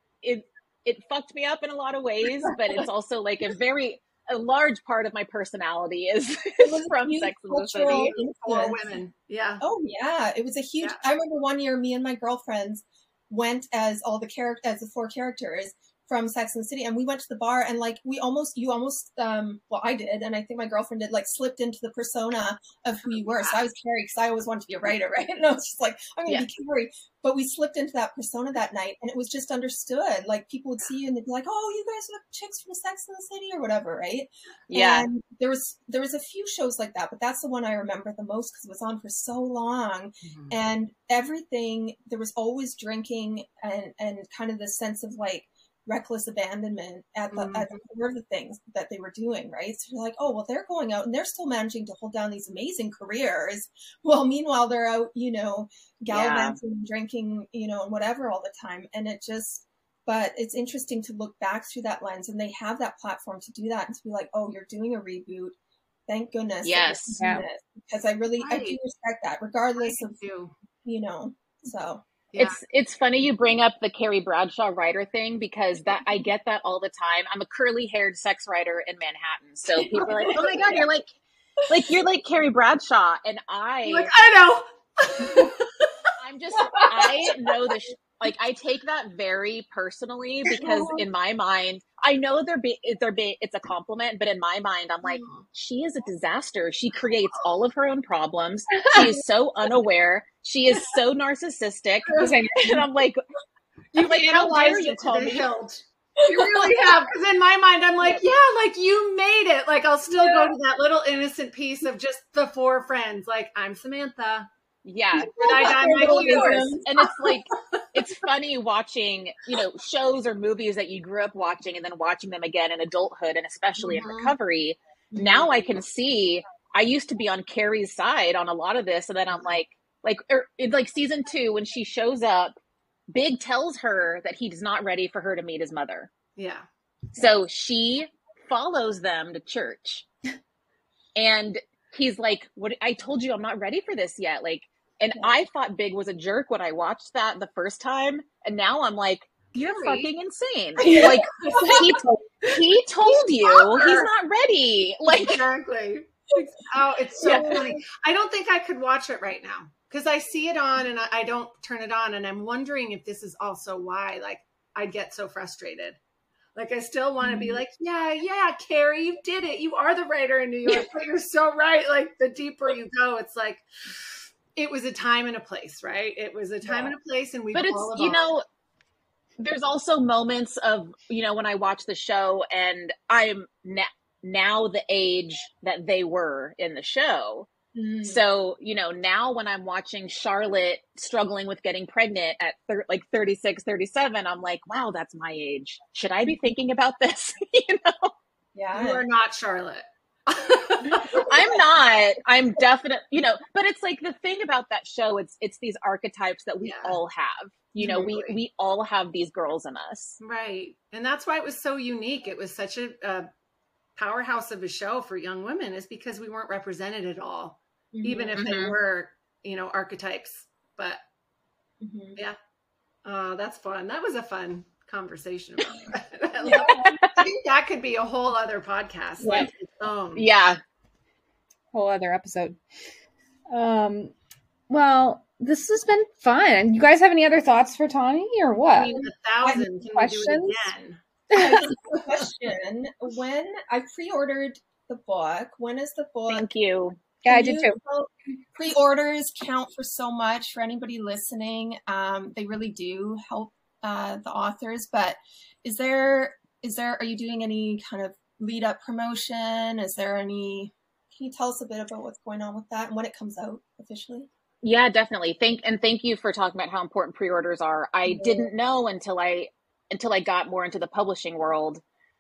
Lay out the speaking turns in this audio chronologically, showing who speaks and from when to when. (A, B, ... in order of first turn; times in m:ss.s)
0:00.2-0:08.1 A
0:06.6-0:09.0 B
0:07.8-0:09.6 C
0:09.6-1:05.6 B
0:23.0-0:23.6 C
0:34.7-0:35.1 A
0:40.2-0:40.6 C
0:47.3-0:47.7 C
0:56.1-0:56.6 A
1:06.1-1:10.2 B
1:06.6-1:07.2 A
1:07.2-1:07.5 D
1:08.4-1:08.8 C
1:09.8-1:10.5 C
1:10.8-1:12.0 B
1:12.3-1:12.6 C
1:12.4-1:21.2 A
1:19.8-1:20.7 B
1:20.2-1:20.8 C
1:21.7-1:24.1 A
1:23.8-1:25.9 C
1:26.2-1:43.2 A
1:26.6-1:27.3 B
1:30.5-1:31.0 B
1:35.1-1:35.4 C
1:42.2-1:42.8 D
1:43.9-1:54.5 C
1:43.9-1:45.5 A
1:46.2-1:46.9 B
1:54.8-2:12.6 A
1:55.2-1:56.8 C
1:55.4-1:57.3 B
2:03.8-2:04.3 C
2:05.1-2:05.5 B
2:13.1-2:16.1 A
2:16.4-2:16.7 C
2:17.2-2:20.1 A
2:21.2-2:35.4 A
2:29.6-2:30.1 C
2:30.8-2:31.9 B
2:30.8-2:32.6 D
2:33.6-2:34.0 B
2:35.1-2:46.0 C
2:37.2-2:37.6 A
2:37.2-2:37.8 B
2:46.6-2:58.2 C
2:47.2-2:47.6 B
2:56.6-2:56.9 B
2:57.5-2:58.4 A
2:59.4-3:07.5 A
3:07.8-3:08.2 B
3:08.0-3:18.1 A
3:18.6-3:19.0 B
3:18.7-3:21.2 C
3:20.8-3:21.6 B
3:21.1-3:30.2 A
3:26.6-3:27.0 C
3:27.8-3:28.1 B
3:27.8-3:28.4 C
3:30.2-3:33.3 C
3:34.0-3:41.0 C
3:37.9-3:38.4 B
3:38.4-3:38.8 A
3:41.8-3:42.2 B
3:43.0-3:50.3 C
3:46.4-3:47.3 B
3:50.2-3:50.6 A
3:51.7-3:52.6 D
3:53.5-3:54.1 D
3:54.7-3:59.0 D
3:58.7-4:01.0 C
3:58.9-3:59.7 B
3:59.8-4:00.7 D
4:01.3-4:01.7 D
4:01.3-4:06.5 B
4:06.3-4:07.0 A
4:07.2-4:07.8 D
4:07.3-4:24.3 B
4:24.6-4:31.8 A
4:28.1-4:28.5 B